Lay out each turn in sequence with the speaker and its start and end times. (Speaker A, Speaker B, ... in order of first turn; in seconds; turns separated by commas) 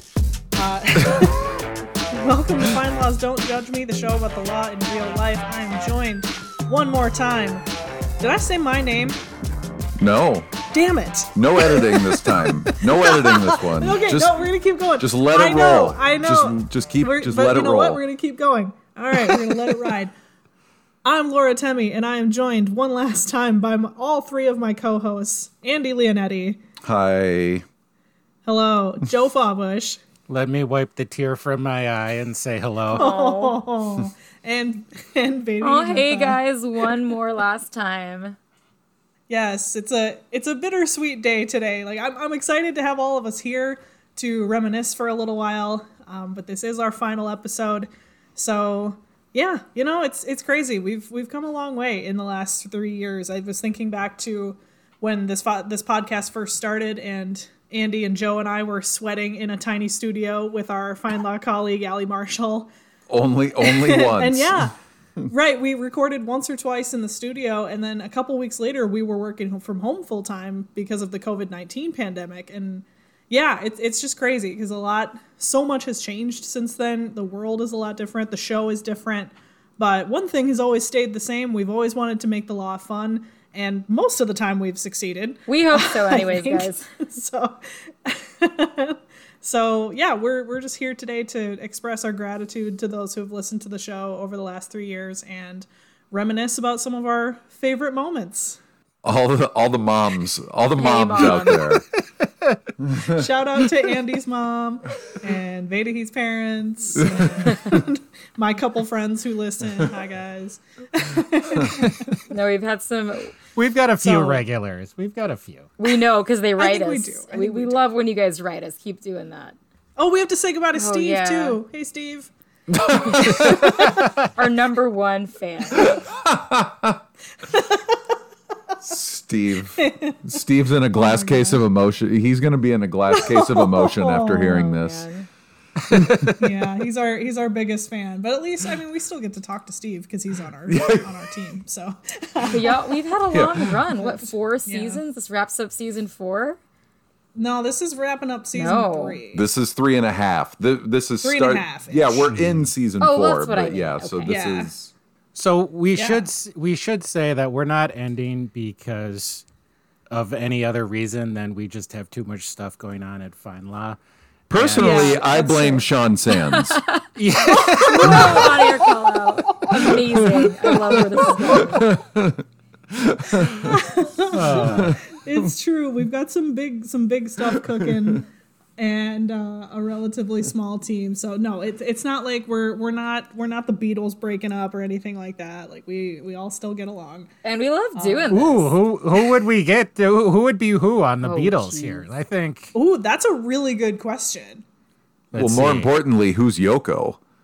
Speaker A: 0.6-7.6, Speaker A: 8.2-9.2, Speaker B: 10.0-10.5, Speaker A: 10.7-20.1, Speaker B: 11.3-14.4, Speaker B: 15.0-18.0, Speaker A: 21.0-26.6, Speaker B: 26.8-27.6, Speaker A: 28.4-30.0, Speaker C: 30.3-33.0, Speaker A: 32.9-36.4, Speaker D: 32.9-33.6, Speaker D: 35.6-38.4, Speaker A: 39.3-62.7, Speaker B: 63.1-64.7, Speaker A: 63.6-64.7, Speaker A: 65.3-98.6, Speaker D: 85.5-86.8, Speaker B: 99.0-101.8, Speaker D: 100.8-101.8, Speaker B: 102.8-103.2, Speaker A: 103.1-112.0, Speaker D: 112.3-113.3, Speaker C: 113.5-115.7, Speaker A: 114.0-114.4, Speaker D: 115.8-119.6, Speaker A: 116.6-117.8, Speaker A: 120.0-122.3, Speaker D: 120.7-121.6, Speaker B: 122.7-123.8, Speaker D: 124.3-126.0, Speaker B: 125.8-127.0, Speaker A: 127.5-128.1, Speaker B: 128.8-135.0, Speaker A: 129.8-130.2, Speaker A: 130.9-131.6, Speaker A: 133.1-134.6, Speaker D: 134.4-135.3, Speaker C: 135.9-136.3, Speaker A: 136.4-142.9, Speaker B: 140.7-141.1, Speaker D: 142.4-146.6, Speaker B: 143.3-143.8, Speaker A: 144.0-145.0, Speaker A: 147.3-149.4, Speaker D: 148.5-149.2, Speaker B: 149.3-154.9, Speaker A: 151.2-152.4, Speaker D: 153.0-154.4, Speaker A: 154.2-154.7, Speaker C: 155.3-159.4, Speaker A: 155.9-156.3, Speaker C: 160.1-164.0, Speaker B: 164.5-166.8, Speaker C: 164.5-165.0, Speaker D: 164.8-165.8, Speaker A: 164.8-165.8, Speaker D: 166.5-167.0, Speaker C: 167.2-168.5, Speaker A: 167.4-168.7, Speaker D: 167.7-171.9, Speaker B: 168.1-168.4, Speaker B: 169.9-170.5, Speaker B: 171.1-172.4, Speaker B: 172.9-173.7, Speaker A: 173.6-187.3, Speaker C: 174.3-175.0, Speaker B: 174.6-175.0, Speaker D: 187.4-188.7, Speaker A: 187.9-188.3, Speaker C: 188.3-192.7, Speaker D: 191.2-192.1, Speaker A: 192.7-194.6, Speaker C: 195.3-195.9, Speaker B: 195.3-197.2